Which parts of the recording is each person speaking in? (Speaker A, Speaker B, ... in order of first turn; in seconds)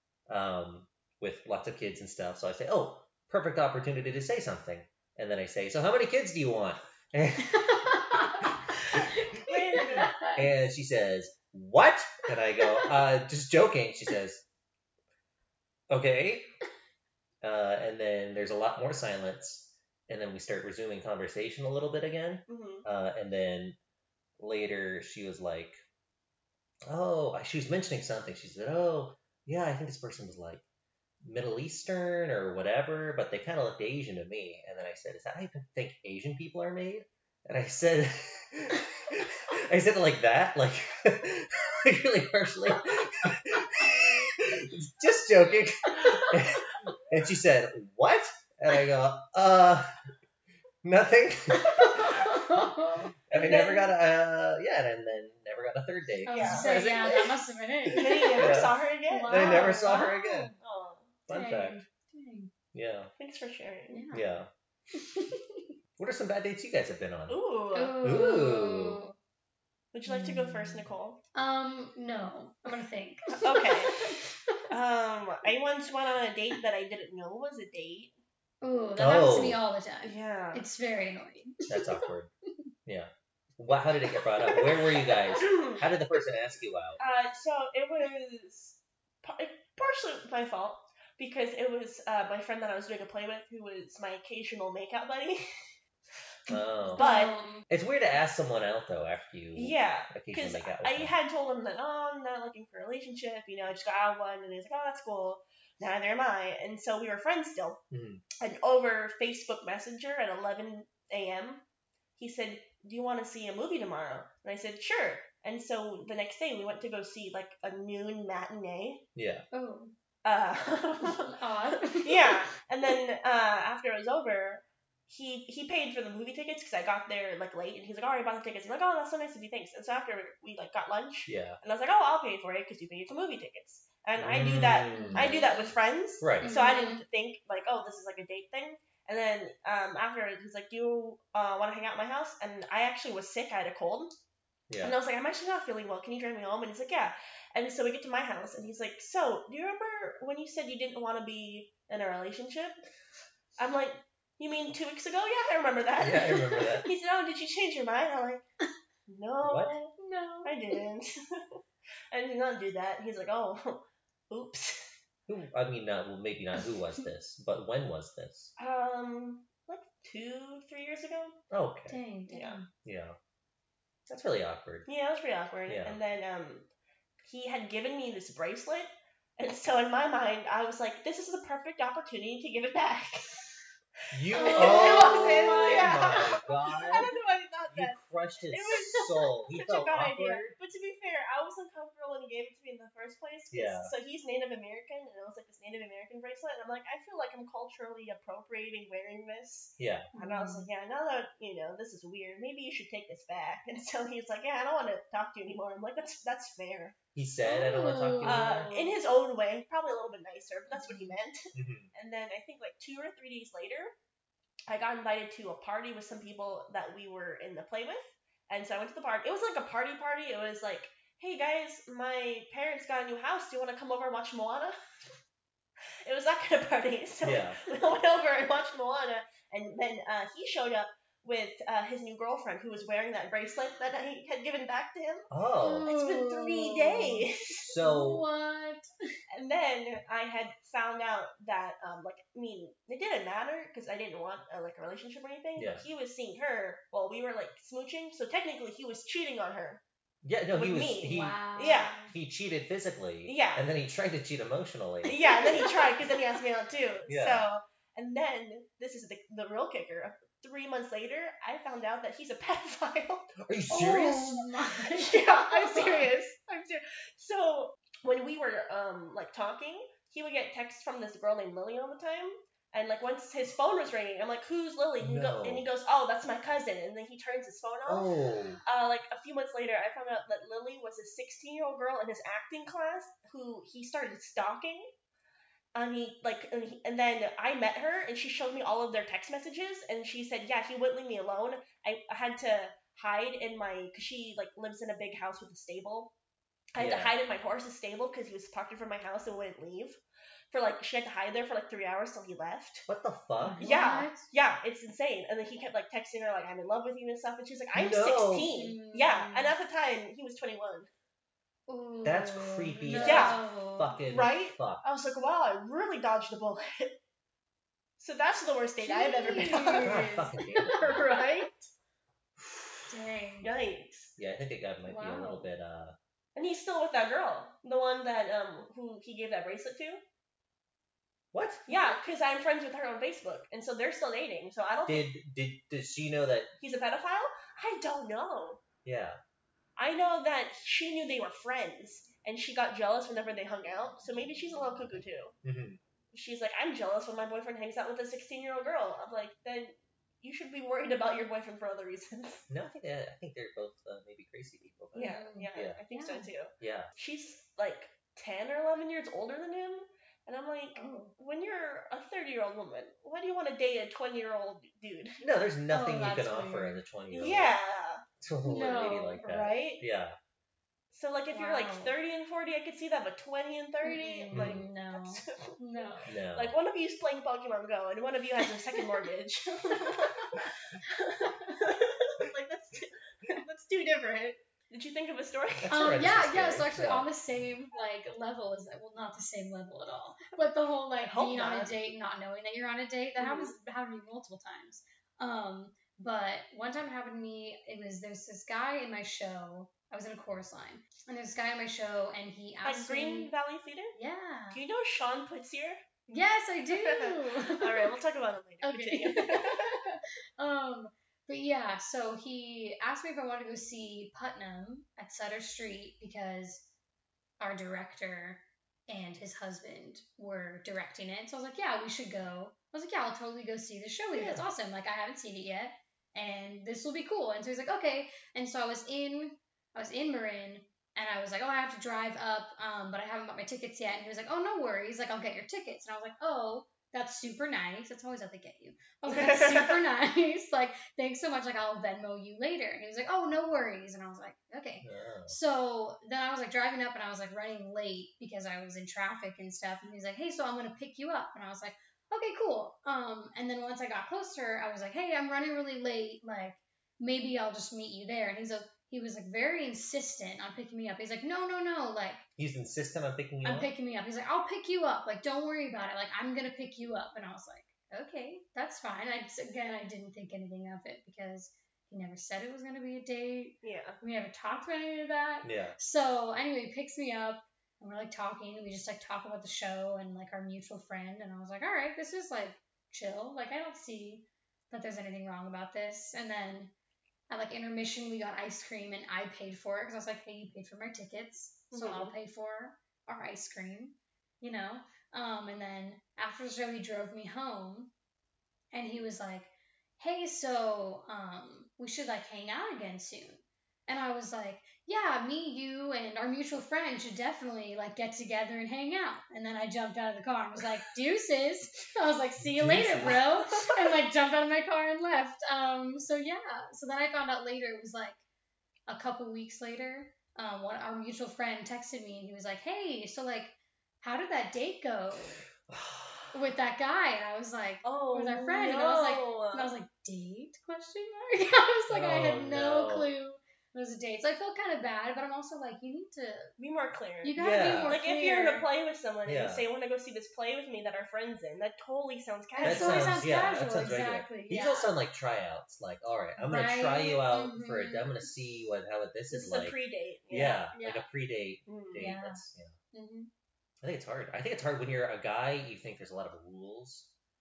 Speaker A: 0.3-7.8, 10.3-14.4, 15.9-16.5, 17.4-23.8, 24.4-25.8, 26.9-30.6, 31.2-49.9, 50.8-52.7, 53.3-57.4, 57.9-60.5, 61.3-61.8, 62.7-63.1, 64.1-64.5, 66.0-67.4, 68.0-69.0, 79.0-79.6, 81.7-82.3, 82.9-87.0, 96.5-97.1, 97.7-101.1, 107.9-108.2, 119.2-119.5, 131.3-131.6, 134.2-135.4, 136.2-136.5, 144.7-144.9, 156.0-156.9, 159.4-159.8, 165.3-168.5, 171.5-172.0, 172.8-173.2, 174.1-174.9, 175.7-176.0, 184.1-187.1, 187.7-190.6, 193.5-193.9, 199.8-200.1, 207.2-208.7, 211.5-211.9, 227.2-227.6, 235.3-235.9, 237.6-238.3, 245.6-245.8, 250.2-255.1, 257.1-257.4, 263.4-264.4, 275.0-275.7, 277.9-278.6, 296.8-297.1, 302.9-303.7, 307.7-308.5, 312.1-314.8, 319.8-321.0, 324.2-326.0, 331.3-331.7, 334.9-336.5, 338.9-339.2, 345.4-345.8, 352.5-355.8, 356.6-356.9, 365.2-367.5, 368.2-370.2, 374.3-374.6, 376.1-376.5, 385.6-387.1, 444.8-445.4, 462.4-463.7, 475.4-475.8, 512.4-513.2, 525.7-526.3, 531.9-533.1, 537.4-538.0, 539.2-539.7, 542.6-549.8, 550.3-552.8, 553.8-557.1
Speaker B: 7.5-10.4, 12.7-12.9, 45.9-46.3, 51.5-53.1, 56.3-60.6, 61.3-62.5, 63.9-64.2, 65.0-65.7, 67.7-69.1, 70.1-74.6, 78.6-82.0, 84.4-84.8, 97.0-97.7, 119.5-119.9, 121.0-122.3, 134.9-135.7, 136.4-137.0, 160.0-160.8, 171.9-172.7, 184.3-186.3, 200.2-200.7, 207.4-208.9, 210.7-211.2, 235.6-237.3, 237.8-238.9, 251.1-252.1, 255.1-255.6, 263.7-266.1, 303.4-304.3, 308.5-309.5, 311.7-314.0, 318.8-320.8, 322.9-323.5, 324.9-325.5, 331.7-332.0, 355.0-356.3, 360.8-361.1, 365.7-366.8, 368.4-369.3, 371.3-371.9, 373.8-376.1, 381.2-381.6, 385.7-403.3, 403.9-404.6, 406.1-407.9, 408.6-416.7, 417.4-462.3, 463.4-486.7, 487.3-497.9, 498.7-518.2, 518.9-525.4, 526.3-536.5, 537.2-538.7, 542.5-545.0, 546.4-548.3, 550.3-551.1, 552.0-553.3
Speaker C: 9.5-10.1, 22.5-22.9, 53.3-53.9, 56.3-56.8, 57.9-60.0, 60.6-61.2, 63.2-64.0, 67.3-68.0, 69.9-71.2, 73.4-74.2, 74.7-78.1, 80.0-80.6, 85.4-85.8, 87.0-95.4, 97.0-97.3, 99.5-107.8, 108.4-111.6, 112.2-119.0, 120.2-144.1, 144.8-152.8, 153.6-158.4, 159.1-161.6, 162.1-164.9, 168.6-171.4, 172.3-172.6, 174.9-176.7, 177.2-183.5, 184.3-207.0, 208.2-213.9, 214.7-224.8, 226.1-235.3, 235.9-237.7, 239.3-249.8, 250.6-252.0, 253.3-253.6, 255.1-263.4, 264.8-278.1, 278.6-284.9, 285.7-296.1, 296.7-300.0, 300.5-302.9, 303.6-310.9, 312.9-313.4, 314.1-316.9, 318.0-320.1, 320.7-321.7, 323.4-324.1, 326.4-330.0, 331.7-335.1, 336.6-338.6, 339.8-345.3, 346.1-352.5, 354.9-365.2, 367.1-368.0, 369.2-369.8, 370.9-386.0, 391.0-391.7, 393.2-393.6, 402.6-404.0, 404.5-405.8, 406.7-409.8, 439.1-439.8, 473.6-474.0, 491.7-492.1, 527.8-529.7, 536.6-543.2, 549.3-550.6, 551.7-552.1